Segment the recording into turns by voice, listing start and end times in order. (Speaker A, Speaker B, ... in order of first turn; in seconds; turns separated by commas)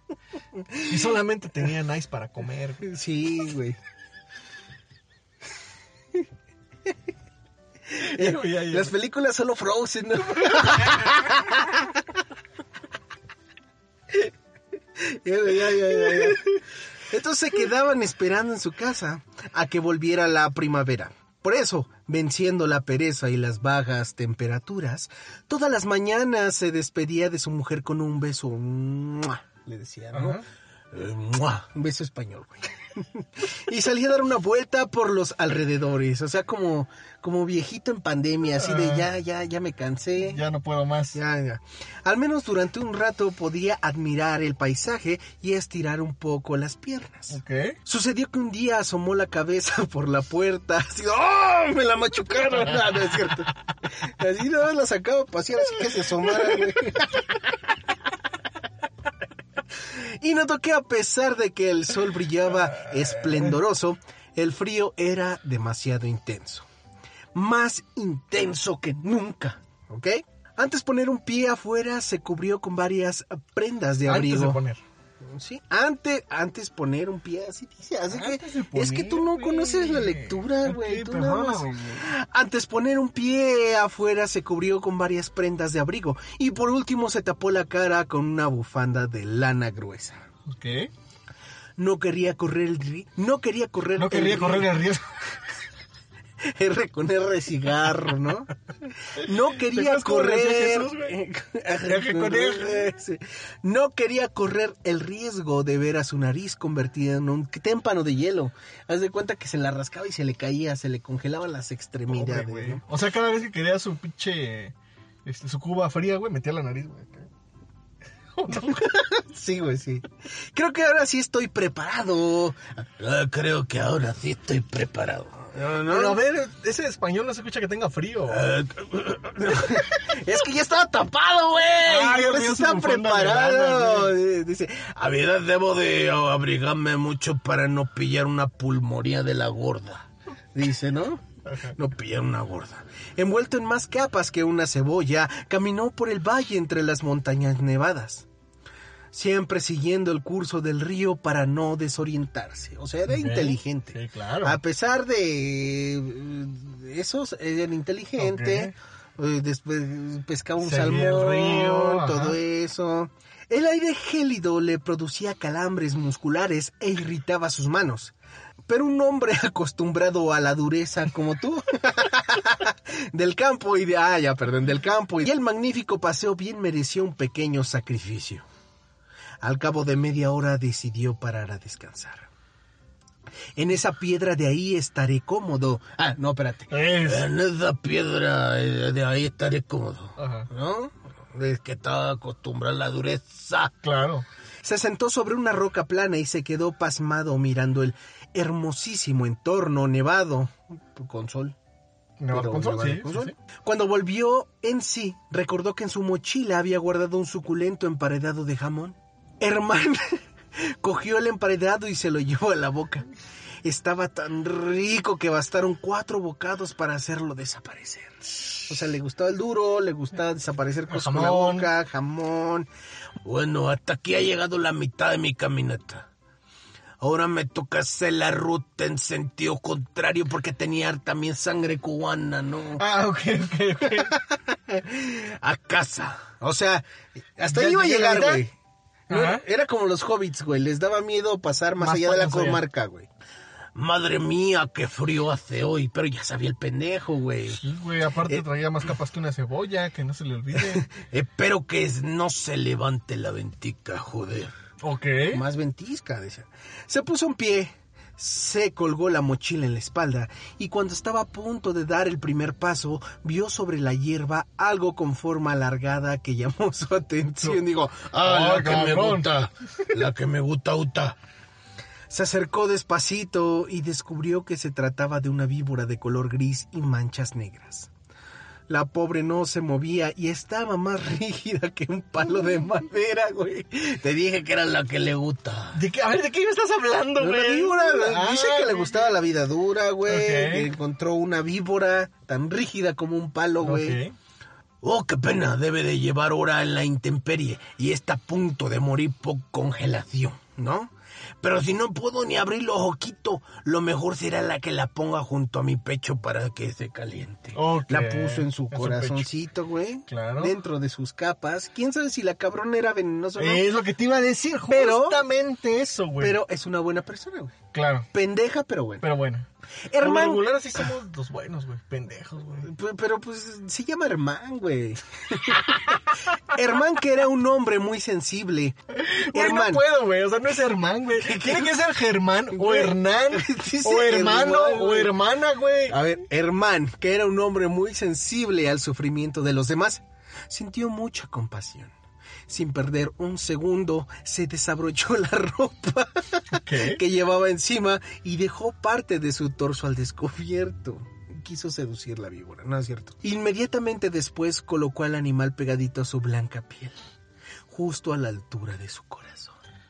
Speaker A: 0.6-1.0, Speaker B: 0.9-2.9, Speaker A: 2.8-3.8, Speaker A: 7.9-12.0, Speaker B: 8.0-8.9, Speaker B: 10.5-11.1, Speaker A: 15.0-40.4, Speaker B: 16.1-16.4, Speaker B: 30.1-30.4, Speaker B: 38.6-39.1, Speaker B: 40.2-41.2, Speaker A: 41.1-57.4, Speaker B: 47.3-47.8, Speaker A: 59.8-66.7, Speaker A: 67.3-74.6, Speaker B: 74.1-74.8, Speaker A: 75.2-90.2, Speaker B: 78.1-82.1, Speaker B: 90.5-90.9, Speaker A: 91.8-94.8, Speaker B: 94.0-95.2, Speaker A: 96.4-112.8, Speaker B: 99.5-101.2, Speaker B: 101.9-102.9, Speaker B: 112.1-117.3, Speaker B: 118.3-118.9, Speaker A: 118.5-126.2, Speaker B: 125.6-128.5, Speaker A: 128.3-148.3, Speaker B: 131.8-134.2, Speaker B: 141.4-141.8, Speaker A: 149.1-168.1, Speaker B: 153.1-154.6, Speaker B: 158.2-158.7, Speaker B: 160.6-162.4, Speaker A: 168.7-178.5, Speaker A: 179.4-182.3, Speaker A: 183.6-193.7, Speaker B: 186.7-187.3, Speaker B: 190.2-190.5, Speaker B: 193.8-194.3, Speaker A: 194.6-201.6, Speaker B: 202.2-203.3, Speaker A: 202.3-213.1, Speaker A: 213.6-222.7, Speaker B: 220.9-221.7, Speaker A: 223.2-226.1, Speaker A: 227.0-232.8, Speaker B: 232.8-234.1, Speaker A: 233.9-236.9, Speaker A: 237.4-238.5, Speaker B: 237.5-238.4, Speaker B: 239.1-239.4, Speaker A: 239.1-243.1, Speaker B: 241.8-242.6, Speaker A: 243.8-247.6, Speaker B: 247.6-250.9, Speaker A: 250.6-254.5, Speaker B: 254.8-255.4, Speaker A: 255.3-271.2, Speaker B: 268.2-269.3, Speaker A: 272.1-277.9, Speaker A: 278.7-285.8, Speaker B: 285.7-289.2, Speaker A: 287.2-294.0, Speaker B: 290.1-290.7, Speaker B: 293.6-294.1, Speaker A: 294.8-313.6, Speaker B: 307.6-309.3, Speaker B: 310.1-310.6, Speaker B: 313.4-316.4, Speaker A: 314.7-315.2, Speaker A: 316.2-317.6, Speaker B: 317.7-318.1, Speaker A: 318.1-319.1, Speaker B: 319.0-319.5, Speaker A: 319.9-320.5, Speaker B: 320.0-322.7, Speaker A: 322.6-328.8, Speaker B: 328.9-336.1, Speaker A: 329.3-329.8, Speaker A: 331.2-331.7, Speaker A: 332.5-335.2, Speaker A: 335.9-341.9, Speaker A: 342.5-357.0, Speaker B: 346.5-347.0, Speaker A: 357.7-359.6